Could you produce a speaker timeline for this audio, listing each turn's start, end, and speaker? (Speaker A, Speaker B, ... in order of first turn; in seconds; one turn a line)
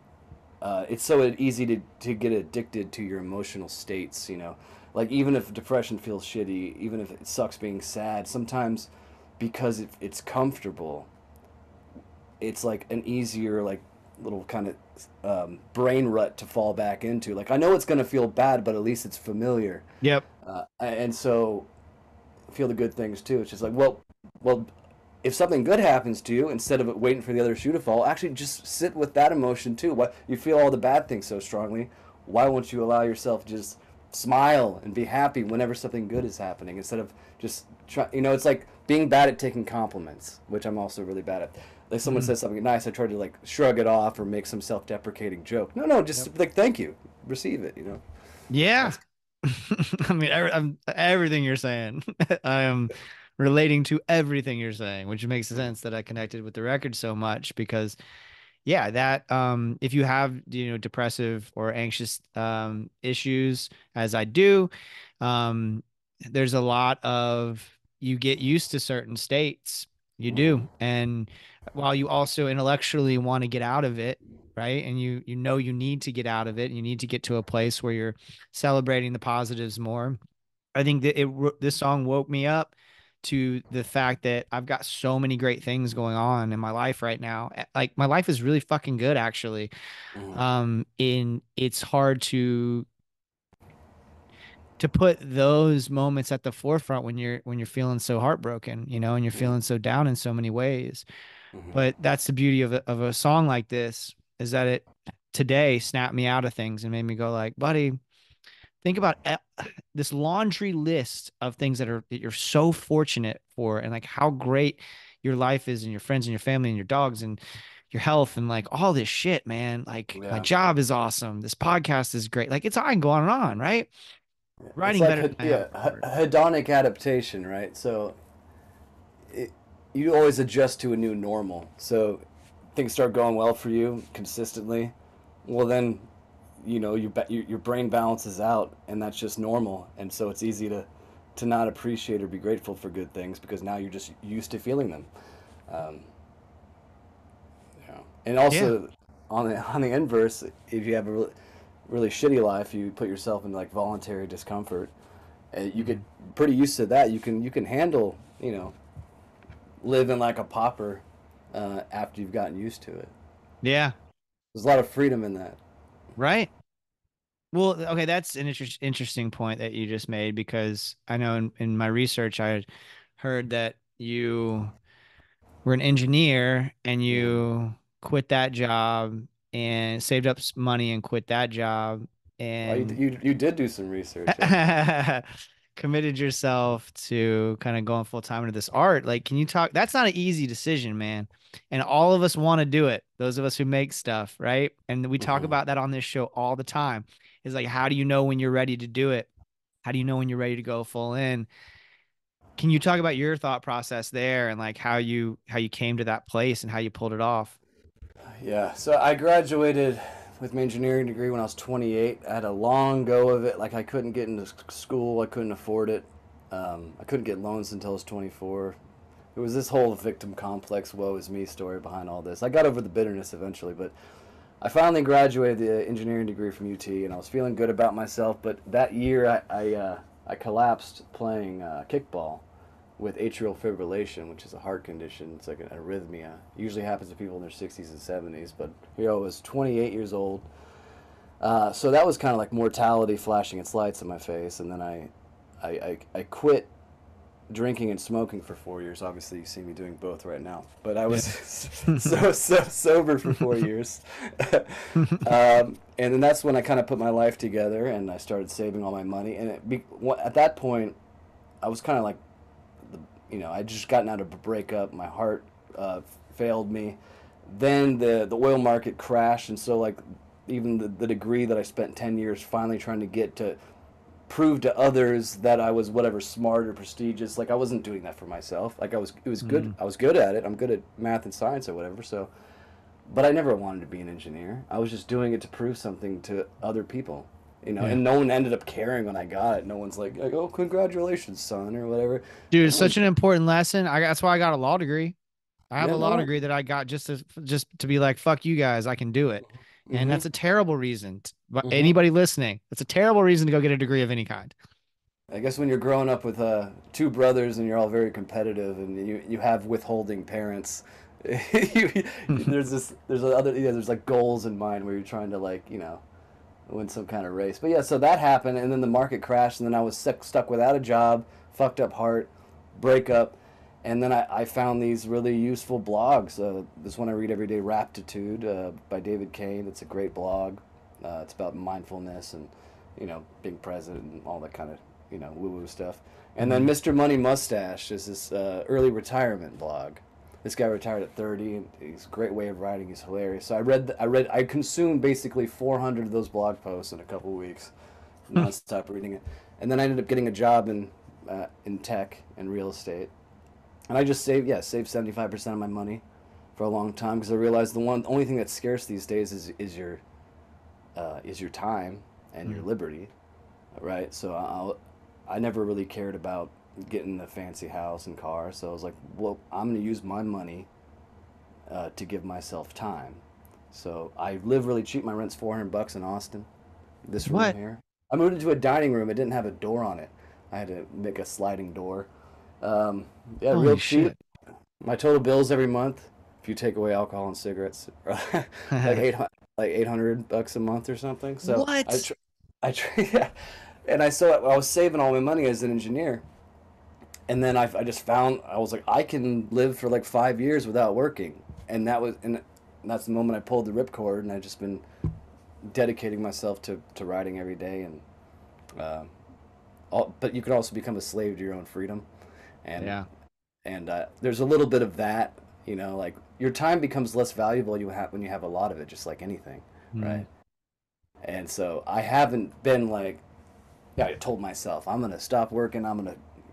Speaker A: 0.6-11.1
Speaker A: 12.4-19.9
Speaker A: 20.4-21.7
Speaker A: 22.5-24.7
Speaker A: 25.2-48.0
Speaker B: 42.0-42.3
Speaker B: 48.5-58.0
Speaker B: 58.6-64.7
Speaker B: 65.2-80.2
Speaker B: 80.7-89.7
Speaker A: 90.1-90.4
Speaker B: 90.3-92.9
Speaker B: 94.8-101.0
Speaker B: 101.7-108.0
Speaker B: 108.8-117.4
Speaker B: 117.9-123.9
Speaker A: 120.1-120.5
Speaker A: 124.6-128.2
Speaker B: 124.8-126.0
Speaker A: 129.3-132.2
Speaker A: 132.7-134.9
Speaker A: 135.4-136.1
Speaker A: 136.6-145.1
Speaker A: 145.7-146.1
Speaker A: 147.8-151.3
Speaker A: 151.9-154.9
Speaker A: 155.5-158.8
Speaker A: 159.8-163.1
Speaker B: 163.6-163.9
Speaker A: 164.5-165.6
Speaker B: 166.2-166.5
Speaker B: 167.5-172.7
Speaker B: 173.2-174.7
Speaker B: 175.6-183.0
Speaker A: 177.1-177.4
Speaker A: 182.6-184.6
Speaker B: 184.3-199.3
Speaker A: 195.2-195.5
Speaker B: 199.8-201.5
Speaker B: 202.6-207.5
Speaker A: 208.4-218.8
Speaker A: 219.3-223.9
Speaker A: 224.6-232.4
Speaker A: 233.0-240.5
Speaker A: 241.4-246.7
Speaker A: 247.5-260.9
Speaker B: 255.0-255.3
Speaker A: 261.6-262.2
Speaker A: 262.8-273.6
Speaker A: 274.3-282.3
Speaker B: 279.4-279.7
Speaker A: 283.1-293.0
Speaker B: 292.5-295.1
Speaker B: 295.7-304.5
Speaker A: 295.8-296.3
Speaker A: 299.9-300.2
Speaker A: 301.6-301.9
Speaker A: 305.3-316.0
Speaker A: 316.7-347.7
Speaker B: 336.4-336.7
Speaker A: 348.3-353.1
Speaker A: 353.9-356.0
Speaker A: 356.6-360.0
Speaker A: 360.9-363.1
Speaker A: 363.8-364.8
Speaker A: 365.3-370.7
Speaker A: 371.7-376.5
Speaker A: 377.1-382.1
Speaker B: 377.3-377.5
Speaker A: 382.6-384.1
Speaker B: 383.5-384.1
Speaker A: 384.8-393.3
Speaker B: 391.4-392.0
Speaker A: 393.9-396.2
Speaker A: 397.3-404.8
Speaker A: 405.7-408.0
Speaker A: 408.8-409.1
Speaker A: 409.9-412.1
Speaker A: 412.6-413.0
Speaker B: 412.8-413.0
Speaker A: 413.6-420.2
Speaker B: 419.9-420.2
Speaker A: 421.2-423.2
Speaker A: 424.0-426.2